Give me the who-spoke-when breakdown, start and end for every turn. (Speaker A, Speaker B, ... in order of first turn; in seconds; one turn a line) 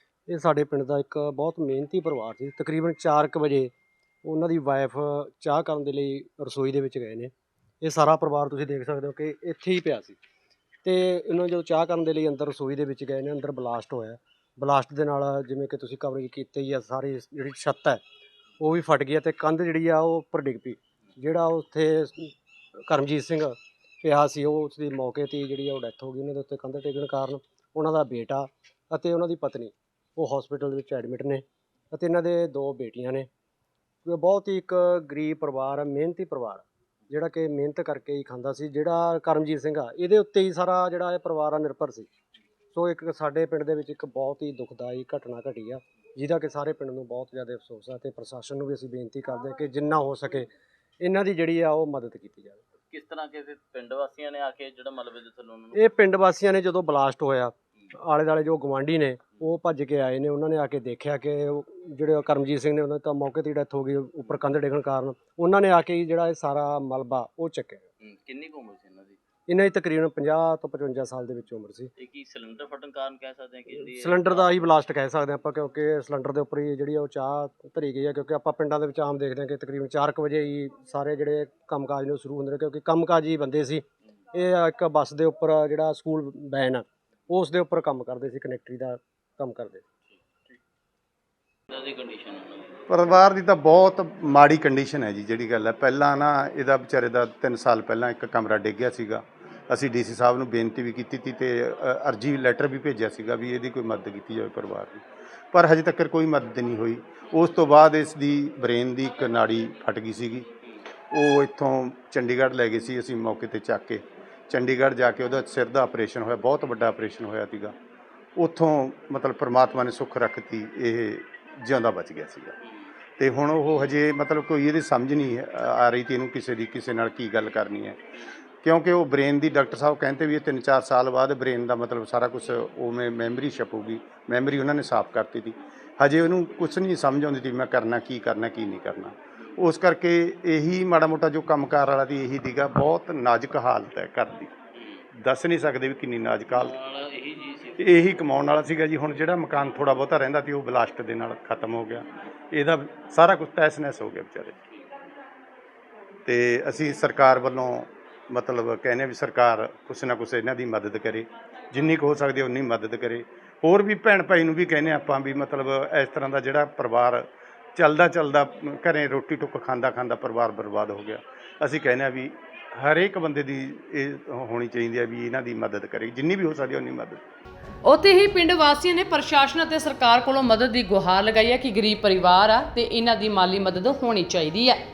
Speaker A: 0.3-3.7
Speaker A: 4.2-10.2
Speaker A: 10.8-18.0
Speaker A: 18.6-22.3
Speaker A: 22.9-33.3
Speaker A: 34.0-42.1
Speaker A: 42.7-50.5
Speaker A: 51.0-52.6
Speaker B: 52.8-55.9
Speaker A: 55.7-67.9
Speaker B: 68.0-69.2
Speaker A: 69.5-71.9
Speaker B: 72.0-74.5
Speaker A: 73.8-89.8
Speaker B: 91.7-92.8
Speaker C: 92.9-110.5
Speaker C: 111.1-117.7
Speaker C: 118.4-122.5
Speaker C: 123.2-128.0
Speaker C: 128.6-144.5
Speaker C: 145.2-146.8
Speaker B: 146.5-147.8
Speaker C: 147.8-154.6
Speaker C: 156.2-177.2
Speaker D: 177.8-184.8